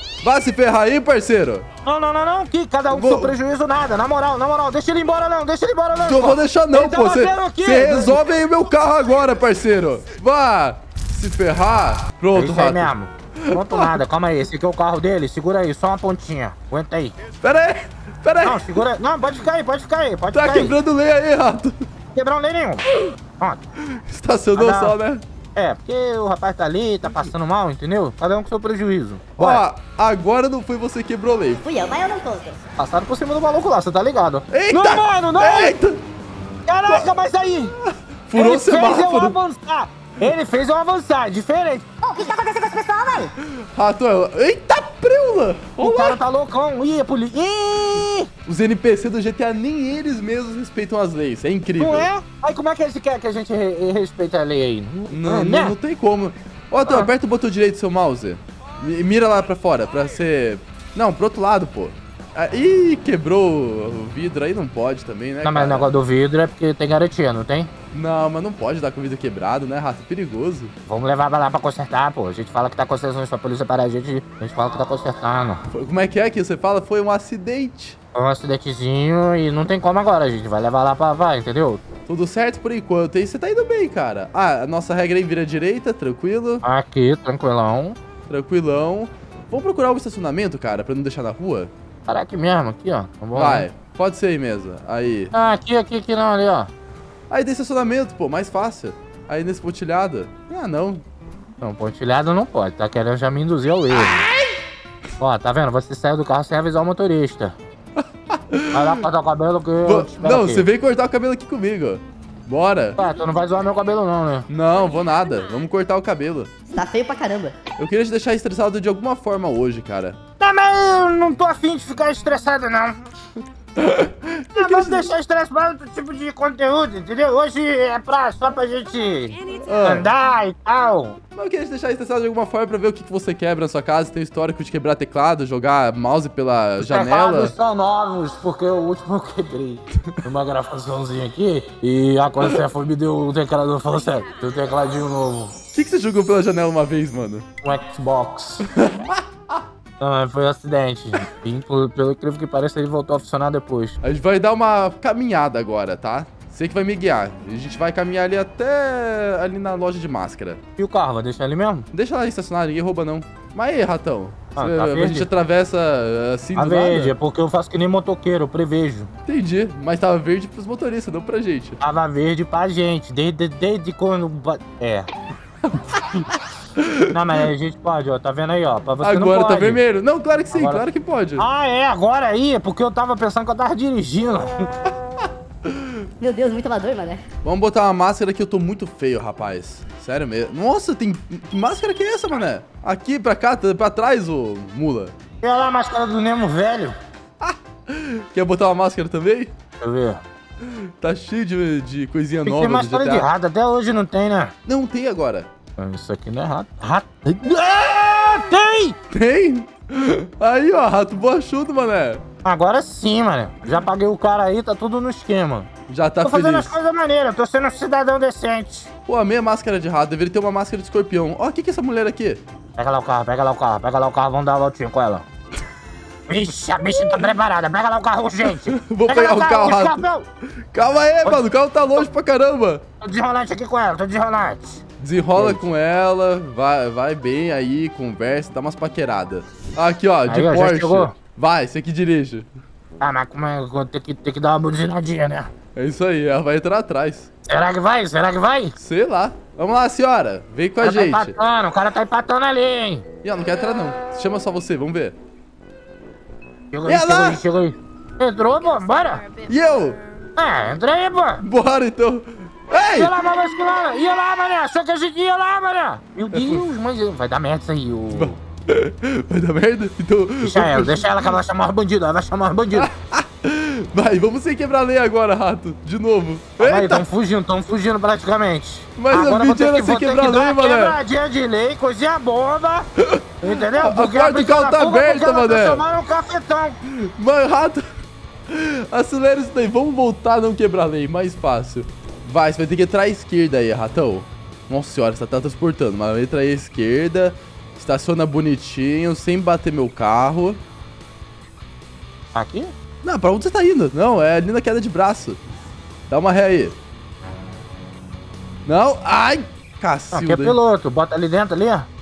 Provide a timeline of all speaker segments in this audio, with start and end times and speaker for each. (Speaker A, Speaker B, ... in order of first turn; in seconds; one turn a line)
Speaker A: 0.2-1.6
Speaker B: 1.9-8.3
Speaker A: 2.9-3.4
Speaker A: 6.0-14.0
Speaker B: 12.3-17.2
Speaker A: 17.4-18.8
Speaker B: 18.4-20.8
Speaker A: 20.3-21.8
Speaker B: 22.1-22.9
Speaker A: 23.9-25.2
Speaker B: 24.5-25.0
Speaker B: 25.6-29.6
Speaker A: 29.4-31.7
Speaker C: 31.6-32.6
Speaker B: 32.8-35.8
Speaker A: 34.5-36.0
Speaker B: 36.7-37.7
Speaker A: 37.8-39.4
Speaker B: 38.3-43.3
Speaker A: 43.4-46.2
Speaker B: 45.8-48.3
Speaker A: 48.5-52.1
Speaker B: 51.8-55.8
Speaker A: 55.1-65.9
Speaker B: 65.4-67.7
Speaker A: 67.9-70.7
Speaker B: 70.9-75.6
Speaker A: 75.7-78.0
Speaker B: 78.1-81.8
Speaker A: 82.1-86.6
Speaker B: 86.6-88.0
Speaker A: 88.3-91.7
Speaker B: 92.1-93.7
Speaker A: 93.3-95.3
Speaker B: 95.3-96.7
Speaker A: 97.3-101.0
Speaker B: 101.6-104.3
Speaker A: 103.9-104.5
Speaker B: 105.2-107.6
Speaker A: 108.0-108.9
Speaker B: 108.7-110.7
Speaker A: 109.8-113.0
Speaker B: 113.0-114.5
Speaker A: 114.5-116.5
Speaker C: 116.7-117.6
Speaker A: 117.8-120.2
Speaker B: 120.4-123.0
Speaker A: 123.8-125.1
Speaker B: 124.5-131.2
Speaker A: 129.7-130.1
Speaker A: 131.3-137.5
Speaker B: 136.8-145.6
Speaker A: 145.7-147.4
Speaker B: 147.6-148.7
Speaker A: 148.8-149.2
Speaker B: 150.0-154.0
Speaker A: 154.0-160.6
Speaker B: 160.8-161.9
Speaker A: 161.9-167.1
Speaker B: 164.6-165.3
Speaker B: 166.5-169.1
Speaker A: 169.3-171.8
Speaker B: 171.8-175.1
Speaker A: 175.8-177.2
Speaker B: 177.1-179.8
Speaker A: 179.0-181.4
Speaker B: 180.5-180.8
Speaker B: 181.4-184.7
Speaker C: 186.2-187.2
Speaker A: 187.4-195.1
Speaker B: 195.4-197.0
Speaker A: 197.4-199.5
Speaker B: 199.8-200.2
Speaker A: 200.7-203.3
Speaker B: 202.4-204.5
Speaker A: 204.7-205.5
Speaker B: 205.8-209.0
Speaker A: 209.1-212.2
Speaker B: 212.4-215.7
Speaker A: 215.9-216.7
Speaker B: 216.2-218.9
Speaker A: 219.1-222.4
Speaker B: 222.8-225.2
Speaker B: 226.3-230.2
Speaker A: 228.6-230.0
Speaker A: 230.7-232.8
Speaker B: 233.0-234.8
Speaker A: 235.0-242.5
Speaker B: 235.3-235.7
Speaker B: 240.3-241.1
Speaker B: 243.0-245.5
Speaker A: 245.8-247.3
Speaker B: 247.5-248.7
Speaker A: 248.8-251.3
Speaker B: 250.8-253.1
Speaker A: 253.2-255.1
Speaker B: 256.7-259.3
Speaker A: 256.9-257.4
Speaker A: 259.5-260.0
Speaker B: 260.4-261.4
Speaker A: 261.4-263.1
Speaker B: 262.9-268.4
Speaker A: 266.3-266.6
Speaker A: 268.1-271.3
Speaker B: 270.4-272.9
Speaker A: 272.7-277.1
Speaker B: 276.6-282.9
Speaker A: 279.0-281.0
Speaker A: 283.0-285.8
Speaker B: 283.4-286.8
Speaker A: 286.9-287.9
Speaker A: 288.5-300.6
Speaker B: 302.3-302.7
Speaker A: 303.0-305.4
Speaker A: 306.1-306.8
Speaker A: 308.6-310.6
Speaker B: 310.1-311.9